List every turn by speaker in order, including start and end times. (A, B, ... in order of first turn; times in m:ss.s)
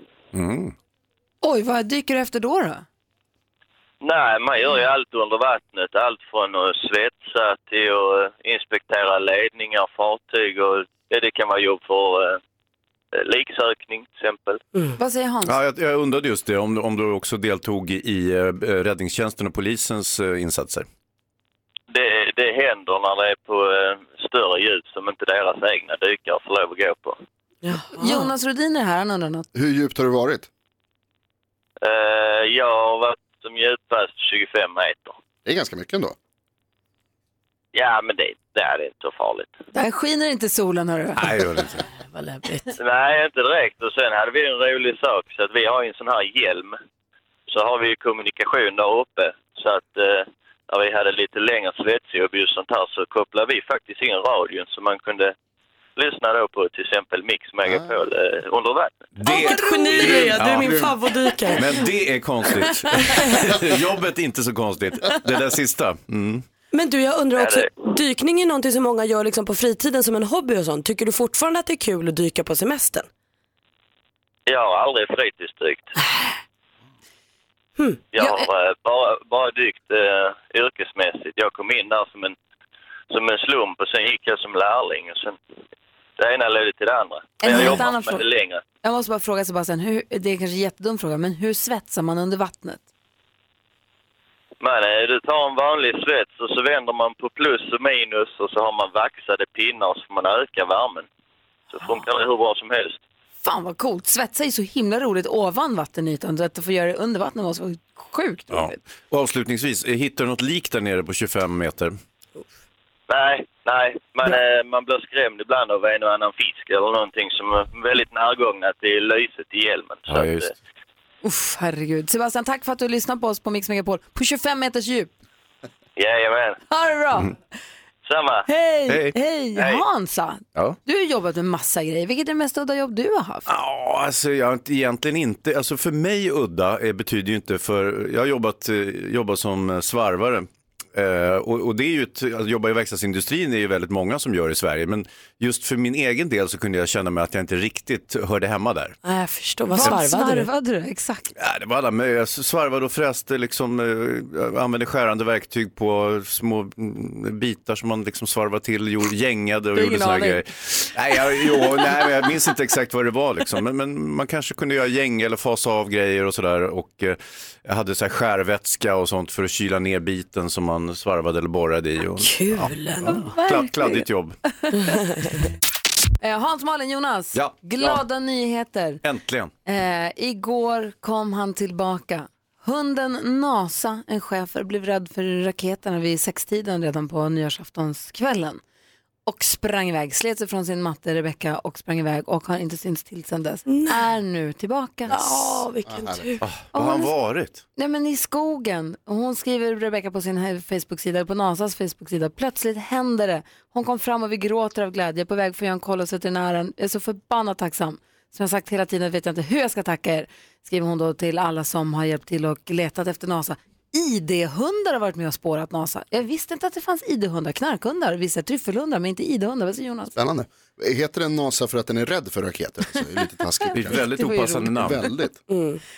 0:00.3-0:00.7 A
0:01.4-0:02.8 B
0:04.0-0:12.4 C
0:13.1-0:14.6 C
0:15.0-0:15.5 B
0:15.4-0:20.9 A
0:21.9-0:27.2 C
0:27.6-0:28.3 D
0:27.9-0:29.5 B
0:29.5-0:30.5 E
0:31.8-0:35.2 C
0:35.4-0:36.1 E
0:37.7-0:39.5 C
0:39.7-0:41.3 B
0:41.2-0:41.8 A
0:42.0-0:42.7 D
0:42.8-0:46.7 C
0:47.5-0:55.3 C
0:56.0-0:59.0 C
0:59.2-1:00.9 A
0:59.2-1:01.7 D
1:01.5-1:06.4 A
1:03.0-1:03.5 D
1:06.7-1:13.1 D
1:07.4-1:07.7 C
1:14.5-1:15.9 C
1:17.8-1:18.4 D
1:18.1-1:22.3 C
1:23.1-1:25.4 C
1:26.2-1:28.6 C
1:27.4-1:28.2 B
1:28.8-1:32.8 B
1:34.6-1:41.0 C
1:41.7-1:43.0 C
1:43.4-1:48.8 B
1:48.5-1:52.0 A
1:53.1-2:00.5 C
2:00.1-2:00.5 A
2:01.2-2:05.1 B
2:06.0-2:06.6 C
2:06.7-2:07.4 B
2:08.0-2:08.5 C
2:08.5-2:13.5 B
2:08.9-2:09.2 A
2:09.6-2:09.8 C
2:13.5-2:29.0 A
2:29.0-2:30.5 D
2:29.7-2:31.3 B
2:31.4-2:54.4 A
2:39.7-2:40.4 B
2:52.2-2:53.2 D
2:53.0-2:54.0 B
2:54.9-2:55.2 D
2:56.2-2:59.0 B
2:57.3-2:58.0 A
2:59.0-2:59.5 A
2:59.6-3:08.6 B
3:09.2-3:15.6 B
3:13.7-3:14.0 D
3:15.1-3:16.4 D
3:15.9-3:16.3 E
3:16.4-3:17.6 A
3:16.7-3:17.1 B
3:17.8-3:40.1 B
3:40.2-3:44.1 E
3:43.7-3:44.9 B
3:43.7-3:45.0 A
3:44.7-3:45.4 E
3:45.5-3:45.8 D